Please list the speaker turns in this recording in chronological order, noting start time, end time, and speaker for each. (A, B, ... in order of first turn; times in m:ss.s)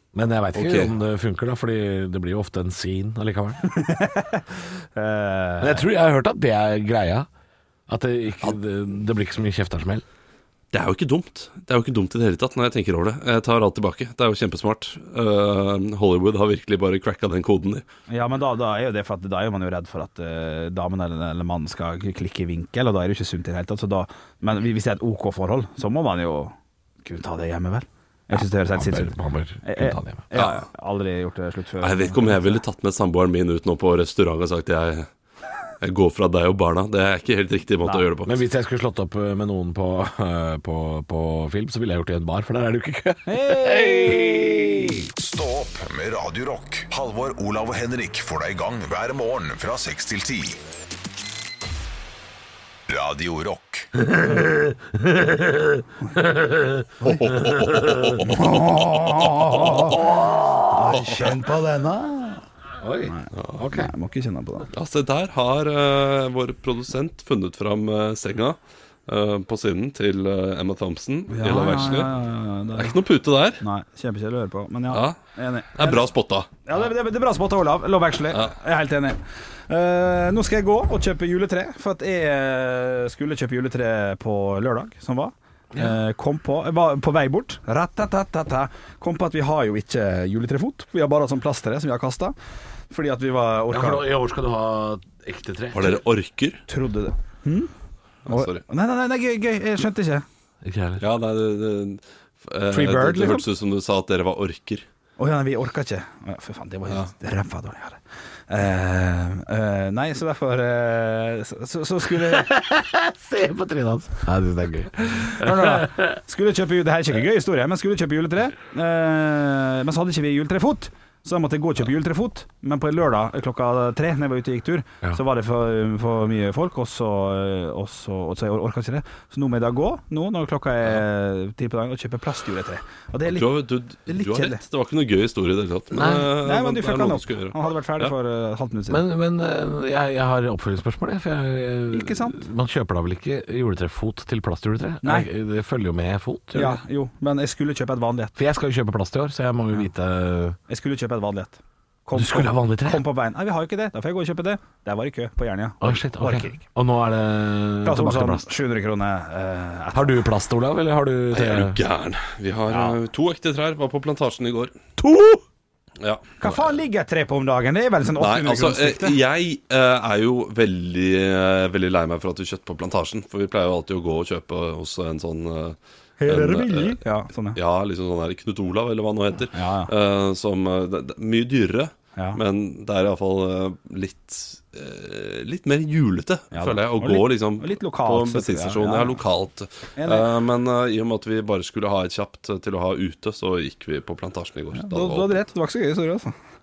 0:00.1-0:03.6 A
0:00.5-0:00.9 B
0:03.7-0:05.8 C
0:05.6-0:07.3 A
0:07.9-0:10.0 A
0:10.7-0:17.8 B
0:18.1-0:32.6 C
0:28.4-0:30.2 A
0:30.3-0:30.6 B
0:31.8-0:35.1 B
0:35.8-0:38.4 B
0:38.2-0:45.1 A
0:43.2-0:44.9 C
0:45.1-0:50.6 D
0:52.9-0:53.9 D
0:54.0-0:58.2 A
0:57.0-0:59.9 B
0:58.2-1:00.0 C
0:59.6-1:01.0 A
1:00.7-1:02.4 C
1:00.9-1:01.4 B
1:02.8-1:03.9 A
1:03.1-1:04.7 C
1:03.3-1:03.6 B
1:04.7-1:12.1 B
1:11.3-1:13.0 C
1:12.7-1:13.6 B
1:13.6-1:16.1 C
1:14.9-1:15.2 B
1:15.7-1:16.5 B
1:16.6-1:32.3 C
1:25.7-1:26.0 A
1:32.9-1:34.1 C
1:33.7-1:36.0 A
1:35.7-1:36.6 B
1:36.7-1:37.7 C
1:38.3-1:38.6 B
1:38.3-1:40.2 C
1:40.6-1:41.0 A
1:41.0-1:44.8 B
1:42.7-1:43.4 C
1:45.2-1:52.5 C
1:52.2-1:56.2 A
1:55.0-2:13.5 C
2:13.3-2:18.1 B
2:14.1-2:14.6 C
2:15.9-2:16.3 A
2:16.4-2:19.0 C
2:18.9-2:26.8 A
2:21.9-2:22.4 C
2:25.0-2:25.3 C
2:26.5-2:28.4 C
2:28.4-2:30.6 A
2:30.7-2:36.6 C
2:32.1-2:33.0 A
2:35.8-2:38.5 A
2:37.8-2:40.2 C
2:39.9-2:41.8 A
2:41.3-2:44.7 B
2:42.7-2:43.0 C
2:45.0-2:45.4 A
2:46.0-2:46.8 B
2:46.4-2:49.2 C
2:48.2-2:57.0 B
2:56.2-2:57.6 C
2:57.5-3:15.3 B
2:59.5-2:59.9 C
3:06.5-3:09.2 C
3:10.0-3:10.3 C
3:14.7-3:16.3 C